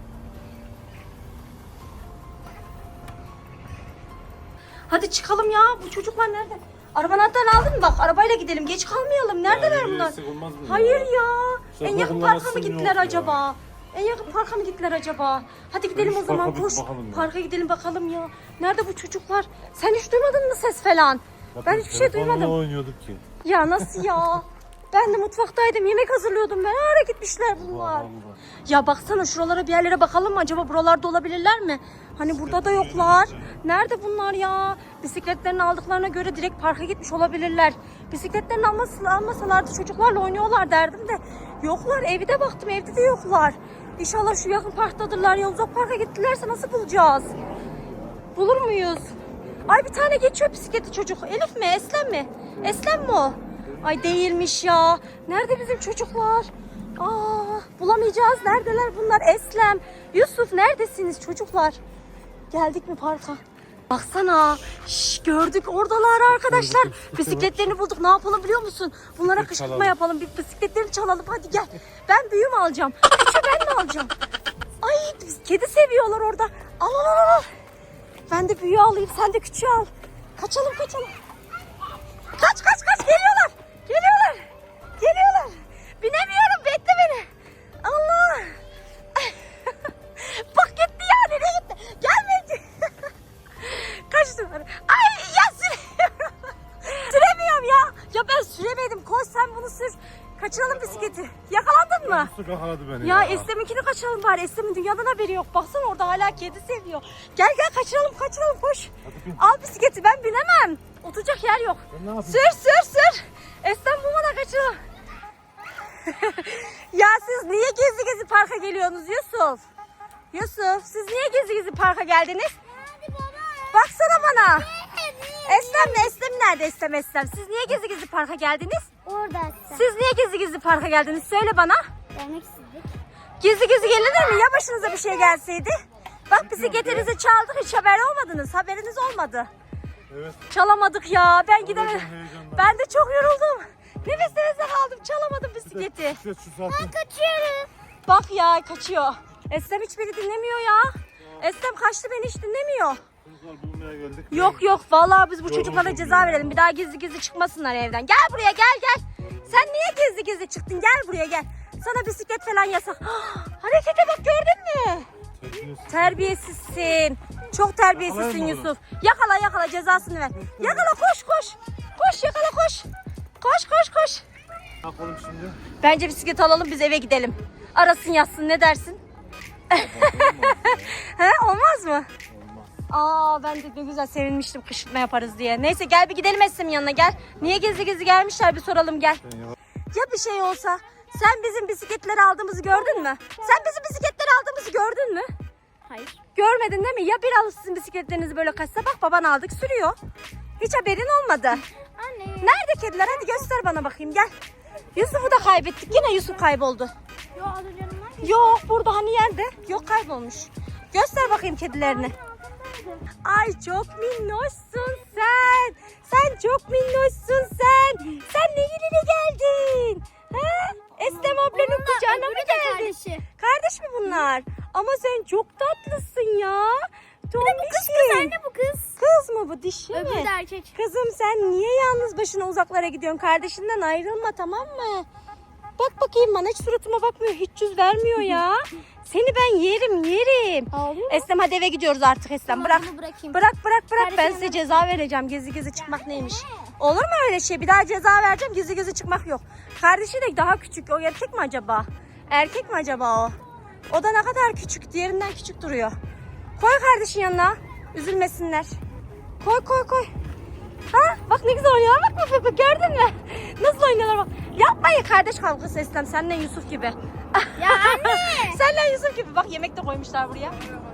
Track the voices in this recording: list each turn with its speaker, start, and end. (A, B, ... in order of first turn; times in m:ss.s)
0:04.9-0:22.6 A
0:09.4-0:11.1 B
0:11.8-0:13.4 B
0:15.9-0:17.3 B
0:21.6-0:23.2 B
0:23.4-0:28.1 A
0:23.8-0:24.1 B
0:27.6-0:28.4 B
0:28.7-0:47.3 A
0:32.3-0:33.6 B
0:48.4-0:49.1 A
0:49.6-1:01.8 A
1:02.5-1:14.1 A
1:06.3-1:07.7 B
1:09.3-1:10.0 B
1:14.8-1:17.5 A
1:18.3-1:21.2 A
1:22.4-1:27.3 A
1:27.8-1:28.6 A
1:29.2-1:33.1 A
1:33.6-1:42.3 A
1:42.0-1:43.5 B
1:43.0-1:54.8 A
1:49.0-1:49.4 B
1:51.9-1:52.6 B
1:56.1-1:59.6 A
2:00.3-2:02.6 A
2:02.7-2:06.2 C
2:03.7-2:04.7 A
2:05.4-2:08.9 A
2:09.1-2:09.9 C
2:09.7-2:11.8 A
2:12.1-2:12.9 C
2:13.4-2:19.5 A
2:14.0-2:15.4 C
2:16.3-2:17.1 B
2:20.1-2:20.5 B
2:20.5-2:26.2 A
2:21.6-2:22.7 B
2:24.0-2:24.4 B
2:25.7-2:27.0 B
2:26.7-2:27.7 C
2:28.1-2:33.0 A
2:33.2-2:34.7 B
2:34.3-2:45.1 A
2:35.4-2:36.6 B
2:39.2-2:39.6 B
2:45.4-2:46.4 B
2:45.9-2:52.9 A
2:47.9-2:48.7 B
2:50.4-2:50.9 B
2:53.4-2:54.2 A
2:54.8-2:55.6 B
2:55.8-2:59.0 A
2:59.7-3:01.0 B
2:59.7-3:02.1 A
3:02.3-3:02.8 B
3:02.9-3:09.2 A
3:09.3-3:09.6 B
3:09.9-3:15.3 A
3:12.7-3:13.7 D
3:15.8-3:16.2 D
3:16.4-3:20.0 A
3:20.6-3:21.6 A
3:22.0-3:23.5 D
3:22.4-3:24.3 A
3:25.0-3:26.9 A
3:25.0-3:26.4 D
3:27.4-3:28.7 D
3:28.2-3:32.2 A
3:31.2-3:33.1 D
3:33.2-3:48.3 A
3:41.1-3:43.2 D
3:47.4-3:48.9 D
3:49.0-3:55.1 A
3:49.9-3:50.8 D
3:55.8-4:13.4 A
4:00.7-4:01.2 D
4:02.6-4:03.4 C
4:02.6-4:02.8 D
4:04.0-4:04.8 D
4:05.8-4:06.5 C
4:13.9-4:16.0 A
4:16.6-4:18.8 A
4:19.4-4:20.1 A
4:20.9-4:30.6 A
4:27.6-4:28.6 D